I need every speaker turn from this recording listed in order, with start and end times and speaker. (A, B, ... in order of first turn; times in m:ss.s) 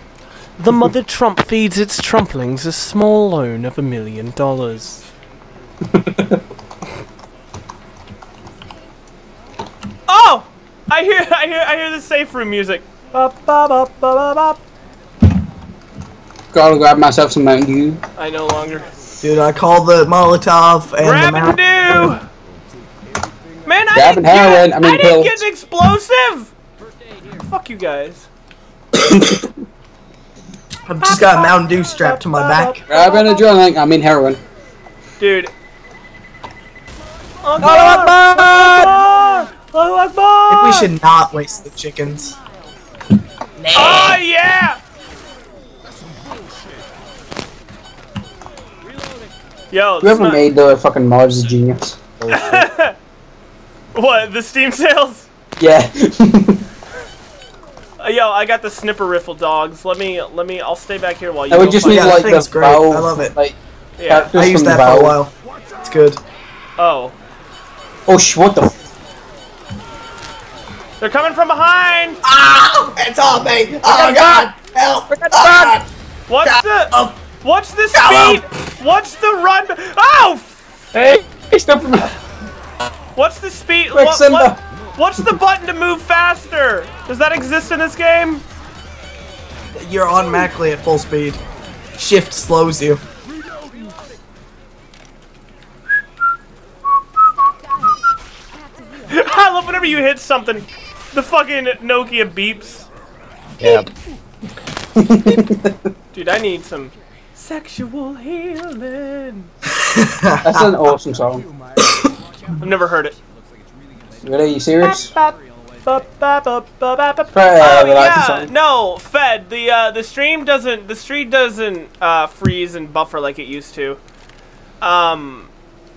0:00.6-0:05.0 A
0:05.8-0:06.4 B
0:10.1-0:14.6 A
0:16.5-0:18.0 B
0:18.2-0:18.9 A
0:19.2-0:22.1 C
0:21.0-0:22.2 A
0:23.6-0:26.5 A
0:23.9-0:25.4 B
0:27.5-0:28.3 A
0:29.2-0:29.4 B
0:30.9-0:32.8 C
0:31.0-0:33.5 A
0:32.9-0:34.4 B
0:35.2-0:35.5 A
0:37.4-0:40.9 A
0:37.6-0:39.1 D
0:40.5-0:42.4 C
0:43.6-0:44.2 C
0:43.8-0:44.8 A
0:49.7-0:50.4 A
0:50.0-0:52.0 B
0:52.2-0:52.7 D
0:52.3-0:53.0 A
0:53.9-0:55.3 A
0:55.6-0:56.6 B
0:58.0-1:02.4 A
1:01.5-1:05.2 B
1:01.9-1:03.3 C
1:04.0-1:04.3 A
1:04.1-1:06.2 C
1:06.8-1:07.2 A
1:08.1-1:08.8 B
1:11.0-1:12.2 A
1:12.2-1:15.9 C
1:13.9-1:14.2 D
1:13.9-1:14.4 A
1:15.1-1:15.8 D
1:16.3-1:20.9 A
1:16.4-1:17.2 C
1:17.9-1:18.4 C
1:20.9-1:22.1 B
1:23.2-1:28.4 A
1:23.9-1:24.6 B
1:29.8-1:31.4 C
1:32.0-1:33.0 C
1:39.1-1:42.9 A
1:43.6-1:43.9 D
1:45.0-1:45.9 B
1:46.1-1:49.5 A
1:49.7-1:50.7 C
1:50.4-1:51.5 B
1:51.8-1:52.1 C
1:52.6-1:53.2 A
1:54.2-1:55.1 B
1:54.8-2:04.0 A
1:57.3-1:58.5 B
2:04.8-2:05.5 A